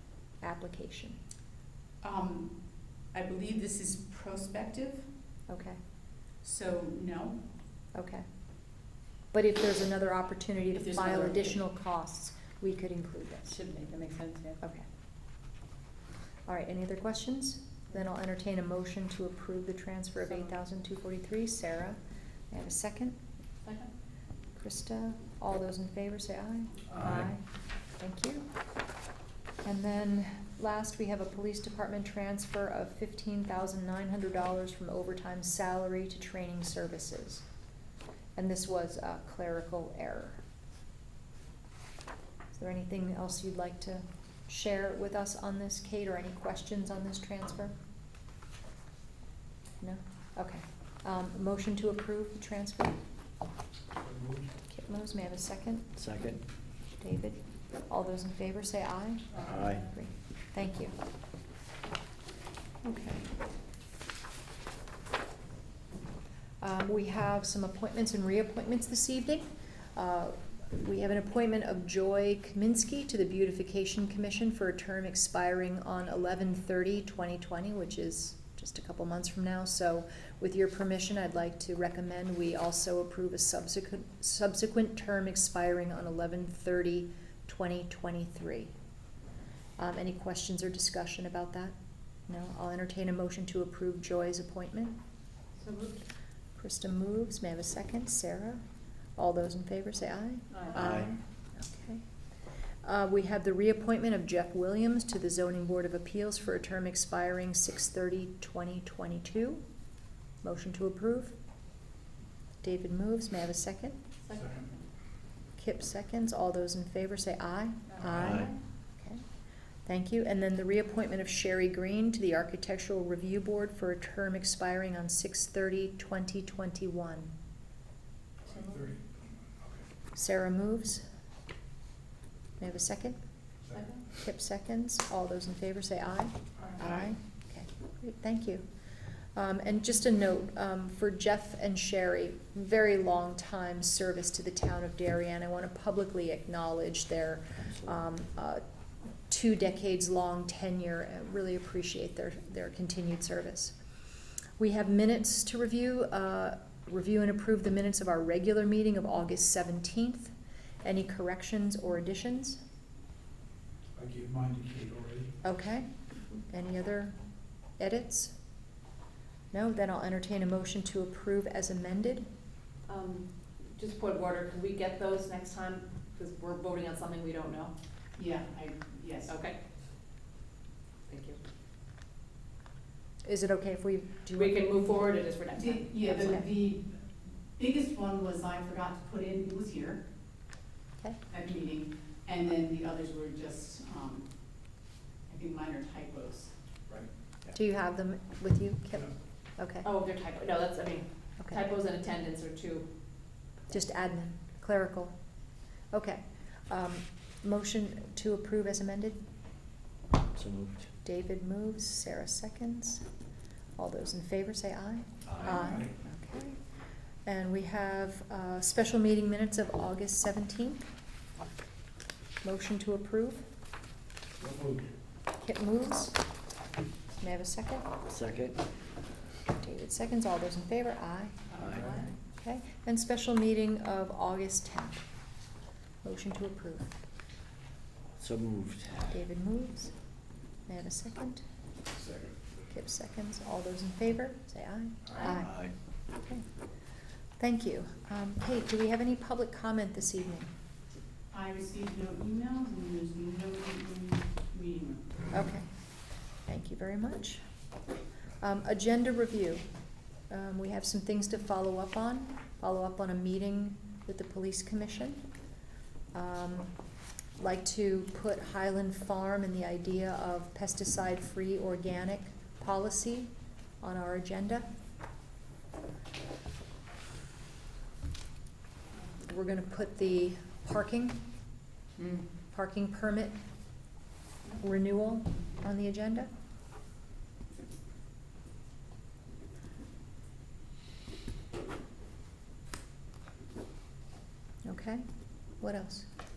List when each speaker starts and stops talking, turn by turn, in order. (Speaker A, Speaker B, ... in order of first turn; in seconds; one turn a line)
Speaker A: 0.4-1.2
Speaker B: 2.0-2.6
Speaker B: 3.1-5.1
Speaker A: 5.5-5.8
Speaker B: 6.4-7.4
Speaker A: 7.9-8.3
Speaker A: 9.3-13.6
Speaker B: 10.8-11.6
Speaker C: 13.5-14.6
Speaker A: 14.6-14.9
Speaker A: 16.5-22.0
Speaker A: 22.5-23.2
Speaker A: 24.6-27.4
Speaker D: 27.0-27.3
Speaker A: 28.0-28.5
Speaker A: 29.6-37.5
Speaker A: 38.4-40.4
Speaker A: 42.5-47.8
Speaker A: 49.8-53.0
Speaker E: 54.0-54.5
Speaker A: 54.7-55.9
Speaker D: 56.0-56.4
Speaker A: 57.0-61.0
Speaker D: 59.4-59.9
Speaker A: 62.8-63.3
Speaker A: 66.6-88.7
Speaker A: 89.8-91.8
Speaker A: 92.3-95.0
Speaker C: 95.6-96.0
Speaker A: 96.6-98.6
Speaker A: 99.2-102.0
Speaker D: 100.7-101.1
Speaker A: 102.8-109.6
Speaker A: 110.4-111.4
Speaker A: 112.6-114.0
Speaker C: 114.3-114.7
Speaker A: 115.6-119.2
Speaker D: 118.0-118.5
Speaker A: 119.9-127.3
Speaker E: 128.5-129.0
Speaker A: 130.2-131.1
Speaker A: 132.6-133.2
Speaker A: 134.1-138.7
Speaker A: 139.3-148.6
Speaker A: 149.3-153.8
Speaker A: 154.6-162.6
Speaker E: 164.0-165.3
Speaker A: 165.4-167.2
Speaker A: 167.8-168.3
Speaker A: 169.5-172.3
Speaker C: 172.9-177.7
Speaker B: 178.2-179.3
Speaker C: 179.3-179.6
Speaker C: 181.1-181.4
Speaker A: 183.2-184.8
Speaker C: 184.3-186.5
Speaker B: 185.6-186.9
Speaker B: 187.6-190.0
Speaker B: 191.3-194.3
Speaker B: 195.3-196.5
Speaker A: 197.5-199.9
Speaker C: 199.8-202.9
Speaker A: 203.7-205.2
Speaker A: 205.9-209.2
Speaker D: 210.3-210.9
Speaker A: 211.0-213.1
Speaker A: 213.8-216.6
Speaker D: 215.3-215.6
Speaker E: 215.5-215.9
Speaker A: 217.2-220.9
Speaker A: 222.4-223.5
Speaker E: 224.4-224.9
Speaker A: 225.4-226.2
Speaker A: 227.2-227.9
Speaker D: 228.1-228.6
Speaker A: 229.5-231.5
Speaker D: 231.6-232.0
Speaker A: 232.4-235.1
Speaker A: 236.0-237.0
Speaker D: 238.2-239.1
Speaker A: 239.1-239.9
Speaker A: 240.7-241.4
Speaker E: 242.0-242.3
Speaker A: 242.7-245.6
Speaker D: 245.3-245.7
Speaker A: 246.2-246.4
Speaker A: 247.4-250.5
Speaker B: 251.3-255.3
Speaker A: 255.3-255.7
Speaker A: 256.4-257.4
Speaker A: 258.4-259.7
Speaker A: 260.3-265.2
Speaker A: 266.1-266.7
Speaker A: 267.4-273.3
Speaker A: 273.8-274.7
Speaker A: 279.2-281.2
Speaker A: 282.5-283.4
Speaker A: 284.6-286.3
Speaker A: 294.6-295.1
Speaker A: 295.6-296.1